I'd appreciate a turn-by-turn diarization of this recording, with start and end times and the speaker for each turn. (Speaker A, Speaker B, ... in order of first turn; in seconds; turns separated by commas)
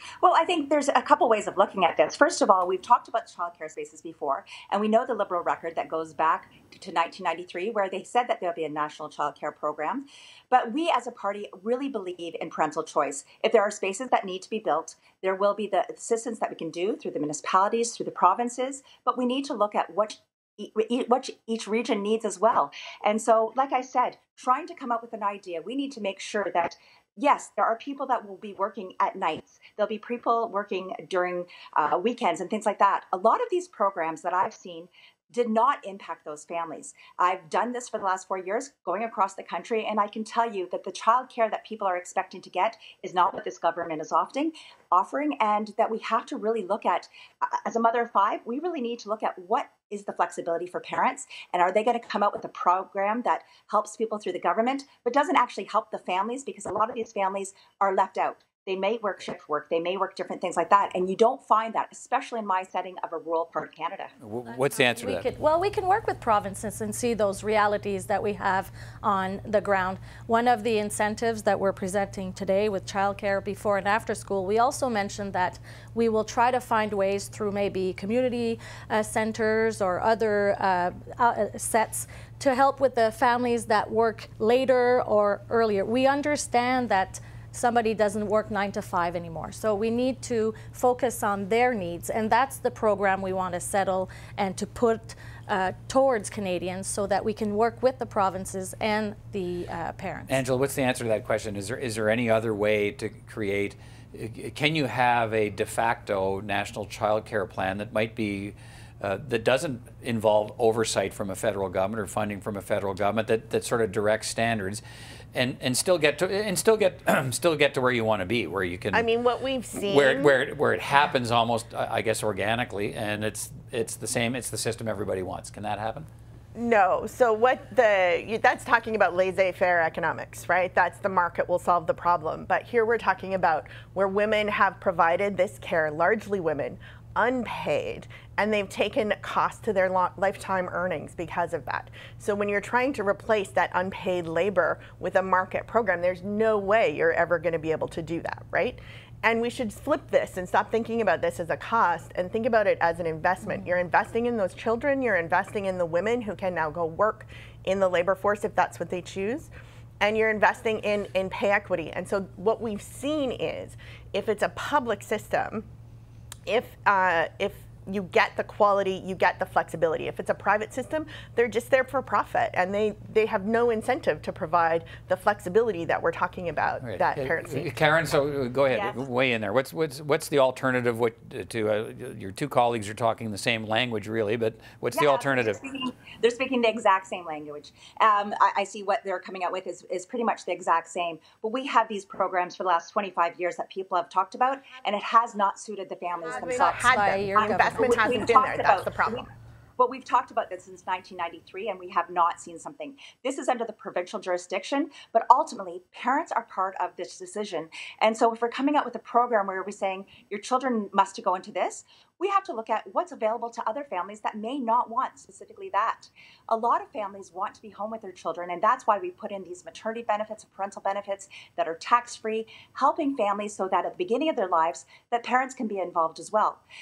Speaker A: 0.2-64.1, Speaker B: 64.2-65.3, Speaker C: 64.6-100.4, Speaker B: 100.3-114.8, Speaker B: 115.3-119.0, Speaker D: 118.9-120.4, Speaker B: 119.8-126.1, Speaker D: 126.5-159.5, Speaker C: 153.4-153.7, Speaker D: 160.0-165.7, Speaker D: 166.4-177.7, Speaker B: 176.8-185.6, Speaker A: 178.7-179.0, Speaker A: 184.9-199.3, Speaker D: 196.2-199.3, Speaker C: 196.4-198.2, Speaker A: 199.8-226.6